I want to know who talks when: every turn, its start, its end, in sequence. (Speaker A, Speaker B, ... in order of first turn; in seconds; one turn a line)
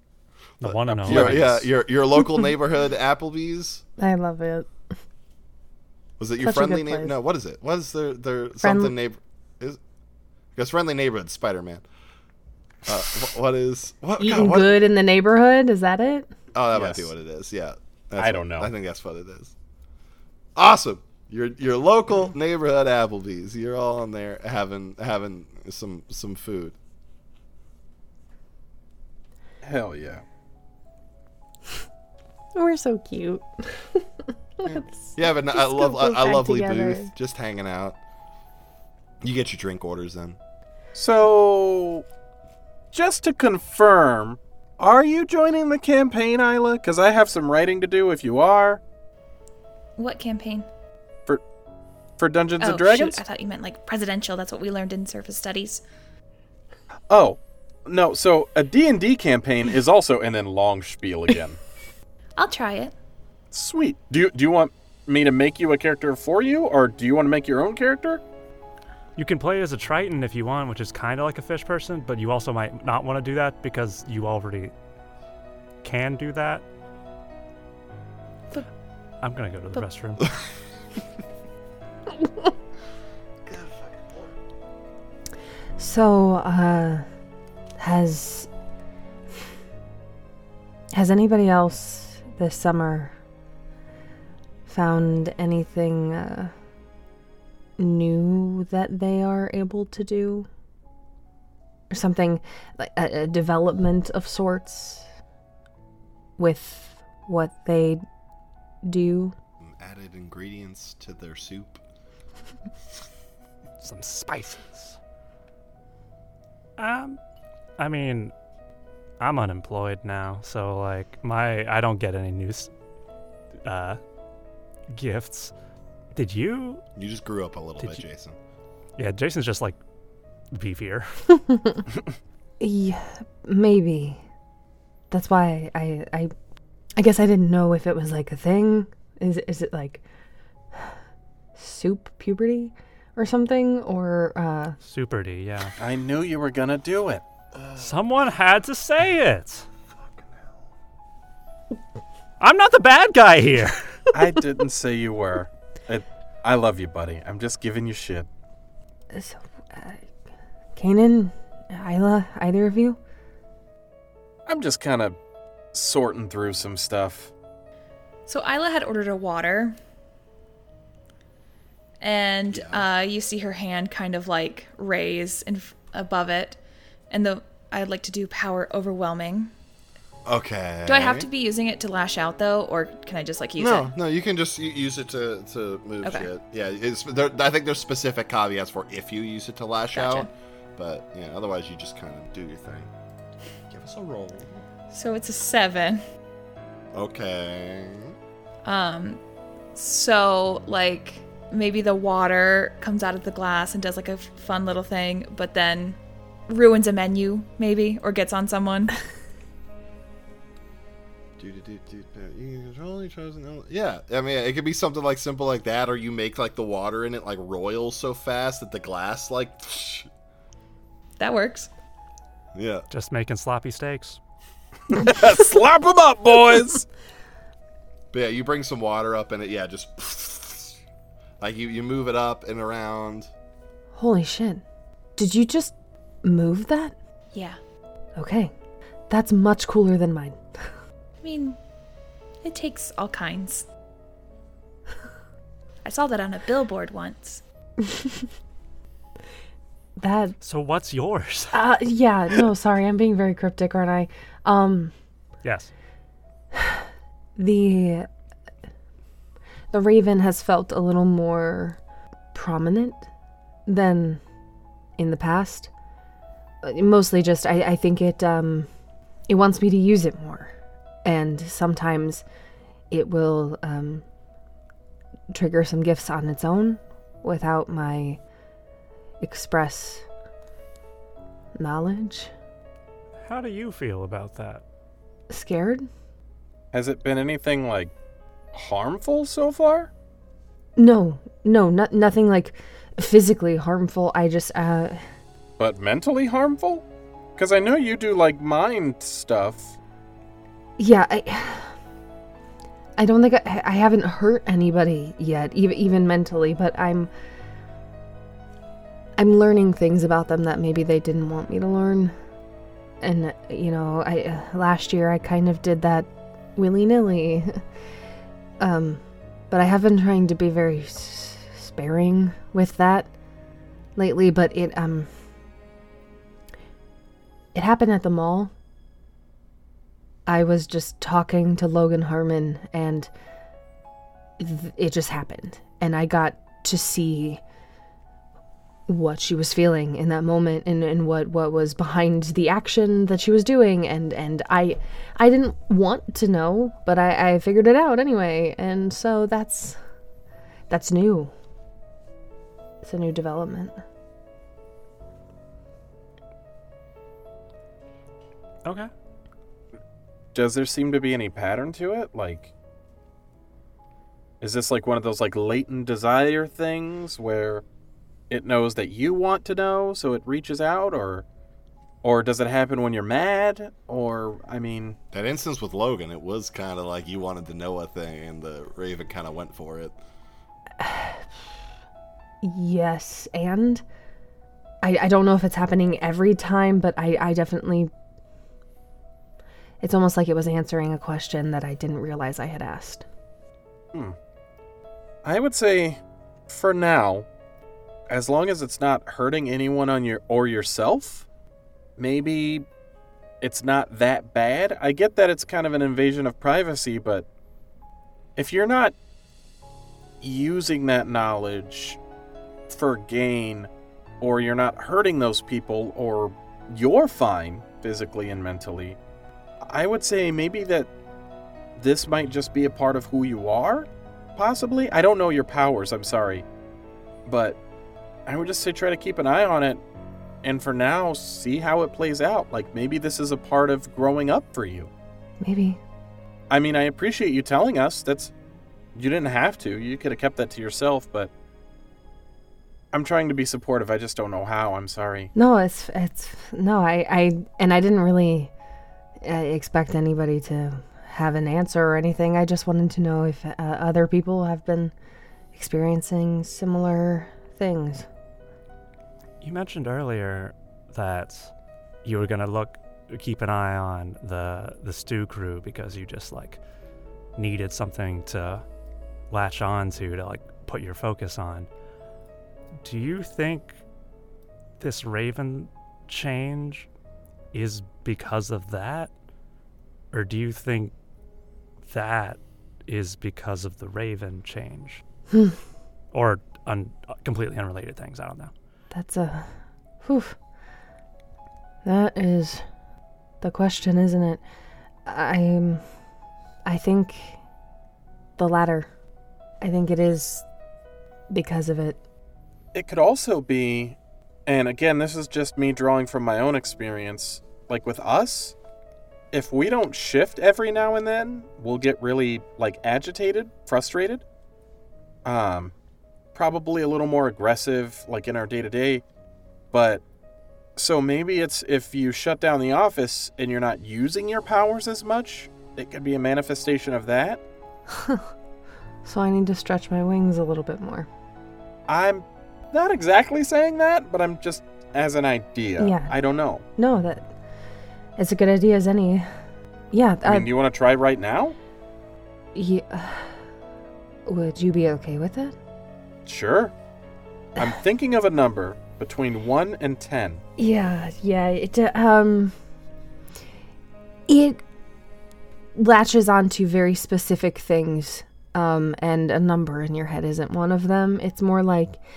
Speaker A: 0.6-1.7
Speaker B: 0.7-3.8
Speaker C: 0.9-1.5
Speaker D: 4.0-4.8
Speaker B: 6.2-9.8
Speaker D: 6.4-7.2
Speaker D: 8.6-8.9
Speaker B: 10.6-11.8
Speaker B: 12.9-14.8
Speaker D: 14.2-16.3
Speaker B: 16.5-19.5
Speaker C: 16.7-17.1
Speaker C: 18.2-18.7
Speaker B: 20.6-26.8
Speaker C: 29.6-30.2
Speaker D: 32.5-37.1
Speaker B: 34.7-38.0
Speaker B: 39.2-40.4
Speaker C: 41.0-42.0
Speaker C: 42.9-48.8
Speaker E: 50.0-50.7
Speaker C: 52.2-53.2
Speaker E: 52.6-55.8
Speaker C: 57.1-61.6
Speaker E: 62.4-62.9
Speaker C: 63.5-68.2
Speaker A: 69.2-74.7
Speaker A: 75.8-76.7
Speaker A: 79.2-80.3
Speaker D: 85.8-87.1
Speaker D: 87.8-88.5
Speaker D: 90.9-93.2
Speaker D: 94.7-96.5
Speaker D: 97.8-100.5
Speaker D: 101.9-105.1
Speaker D: 106.4-108.0
Speaker D: 108.9-109.3
Speaker B: 109.6-111.8
Speaker A: 113.8-115.0
Speaker A: 116.8-117.2
Speaker A: 117.8-118.3
Speaker A: 119.2-122.7
Speaker A: 123.7-124.0
Speaker A: 124.9-125.5
Speaker A: 126.1-126.9
Speaker B: 127.0-128.4
Speaker A: 129.0-129.8
Speaker A: 130.5-131.3
Speaker D: 131.3-131.8
Speaker D: 132.6-134.2
Speaker D: 135.1-136.3
Speaker D: 137.0-140.0
Speaker D: 141.6-144.8
Speaker A: 144.8-145.8
Speaker C: 145.8-147.2
Speaker A: 147.8-149.7
Speaker A: 152.4-154.1
Speaker C: 154.1-158.3
Speaker D: 159.1-160.1
Speaker D: 160.8-163.0
Speaker C: 164.5-165.2
Speaker C: 165.7-167.3
Speaker E: 168.3-169.8
Speaker E: 172.0-176.6
Speaker B: 172.5-172.9
Speaker E: 177.1-179.5
Speaker B: 180.3-181.3
Speaker E: 180.9-183.9
Speaker B: 183.6-192.9
Speaker E: 186.0-186.3
Speaker E: 189.9-190.3
Speaker B: 193.7-194.6
Speaker E: 194.9-196.0
Speaker B: 196.9-198.2
Speaker E: 198.7-199.2
Speaker E: 199.8-208.9
Speaker B: 211.4-220.1
Speaker E: 221.2-221.7
Speaker B: 222.6-222.9
Speaker A: 222.9-224.2
Speaker C: 224.9-226.9
Speaker B: 228.1-230.8
Speaker B: 231.4-233.3
Speaker D: 233.9-234.6
Speaker D: 235.2-236.9
Speaker E: 237.3-237.6
Speaker D: 238.2-238.5
Speaker D: 239.1-240.8
Speaker E: 241.2-241.6
Speaker E: 242.4-243.7
Speaker E: 245.8-247.4
Speaker D: 247.8-248.2
Speaker D: 250.0-250.4
Speaker A: 250.4-251.6
Speaker D: 251.5-254.9
Speaker A: 255.4-255.7
Speaker D: 256.6-256.8
Speaker D: 257.4-258.1
Speaker D: 259.7-261.8
Speaker D: 262.3-263.1
Speaker D: 263.7-264.2
Speaker D: 265.0-265.7
Speaker D: 266.6-268.7
Speaker D: 269.3-270.5
Speaker D: 271.1-272.2
Speaker D: 272.9-274.0
Speaker D: 275.3-278.2
Speaker D: 279.2-280.1
Speaker D: 281.6-282.3
Speaker A: 283.2-284.6
Speaker D: 285.3-285.9
Speaker C: 286.7-287.9
Speaker C: 288.5-289.9
Speaker D: 290.8-295.1
Speaker C: 295.6-296.9
Speaker C: 297.4-299.8
Speaker D: 300.8-301.8
Speaker D: 303.0-307.1
Speaker D: 309.2-312.1
Speaker D: 313.0-317.6
Speaker D: 318.6-323.1
Speaker D: 324.0-325.1
Speaker D: 327.5-328.5
Speaker D: 330.3-333.1
Speaker D: 334.4-337.4
Speaker D: 338.9-349.8
Speaker D: 350.7-351.3
Speaker D: 352.8-353.8
Speaker A: 358.6-358.9
Speaker C: 360.3-362.5
Speaker C: 364.4-367.6
Speaker C: 368.3-371.2
Speaker C: 372.0-375.0
Speaker B: 375.1-380.0
Speaker D: 380.8-381.3
Speaker D: 382.4-383.8
Speaker D: 384.8-387.9
Speaker D: 389.8-393.1
Speaker C: 395.2-397.3
Speaker C: 398.1-401.2
Speaker C: 402.0-402.7
Speaker C: 403.4-407.3
Speaker C: 408.4-408.9
Speaker C: 410.2-412.0
Speaker C: 412.7-419.0
Speaker C: 419.6-420.9
Speaker C: 421.8-426.4
Speaker C: 427.3-427.6
Speaker C: 428.3-429.8
Speaker C: 430.4-434.9
Speaker D: 435.4-435.8
Speaker C: 436.5-438.3
Speaker C: 438.9-441.3
Speaker C: 442.9-445.3
Speaker D: 445.4-448.5
Speaker D: 449.2-454.9
Speaker D: 455.5-458.1
Speaker A: 459.4-461.5
Speaker A: 462.0-466.6
Speaker A: 467.4-468.6
Speaker A: 469.3-471.7
Speaker A: 472.8-473.8
Speaker A: 474.8-476.9
Speaker A: 477.5-479.1
Speaker A: 480.1-480.9
Speaker A: 481.8-485.0
Speaker D: 485.3-485.6
Speaker A: 486.1-488.5
Speaker D: 488.9-490.4
Speaker D: 491.8-492.6
Speaker D: 493.4-494.4
Speaker D: 495.1-495.8
Speaker D: 496.6-497.4
Speaker D: 498.4-498.9
Speaker D: 499.6-500.5
Speaker D: 501.3-502.0
Speaker C: 502.7-508.6
Speaker C: 509.3-514.2
Speaker C: 515.2-515.7
Speaker C: 516.3-519.0
Speaker C: 519.7-520.0
Speaker C: 520.8-527.4
Speaker D: 527.9-528.2
Speaker D: 529.0-531.1
Speaker C: 531.9-536.6
Speaker D: 535.8-536.1
Speaker D: 536.7-537.3
Speaker D: 538.2-539.4
Speaker D: 539.9-540.5
Speaker C: 540.2-541.6
Speaker D: 542.5-543.4
Speaker D: 544.3-545.6
Speaker C: 546.3-546.7
Speaker C: 547.6-550.4
Speaker D: 550.6-552.5
Speaker D: 554.3-554.6
Speaker D: 555.8-562.0